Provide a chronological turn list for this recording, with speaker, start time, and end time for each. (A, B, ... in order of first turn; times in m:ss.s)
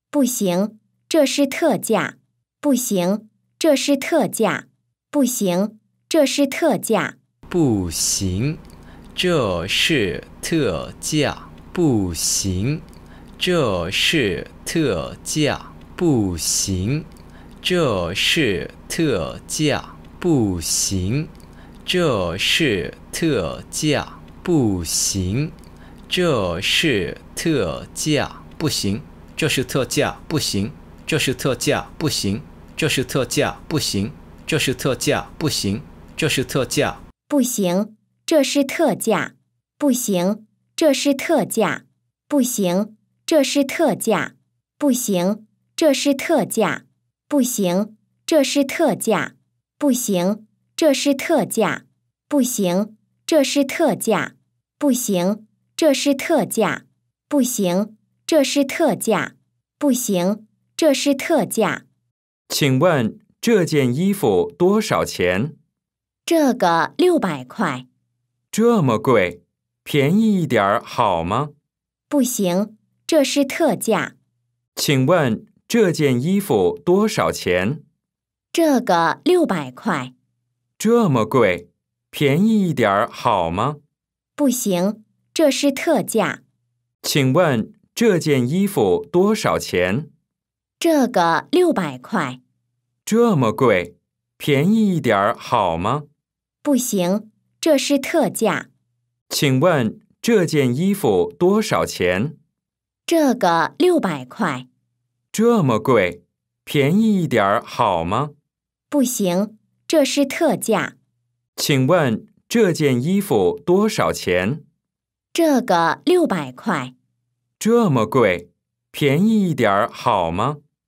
0:00.1-0:07.2 A
0:07.5-0:08.6 B
0:09.1-0:12.8 B
0:13.4-0:17.1 B
0:17.6-0:21.3 B
0:21.8-0:25.6 B
0:26.1-0:37.0 B
0:37.3-1:01.8 A
1:02.5-1:05.6 C
1:06.3-1:07.9 A
1:08.5-1:11.5 C
1:12.1-1:14.1 A
1:14.8-1:17.8 C
1:18.5-1:20.1 A
1:20.8-1:23.8 C
1:24.4-1:26.4 A
1:27.0-1:30.1 C
1:30.8-1:32.4 A
1:33.1-1:36.1 C
1:36.6-1:38.7 A
1:39.3-1:42.4 C
1:43.1-1:44.7 A
1:45.3-1:48.3 C
1:48.9-1:51.0 A
1:51.6-1:54.6 C
1:55.3-1:56.9 A
1:57.6-2:00.6 C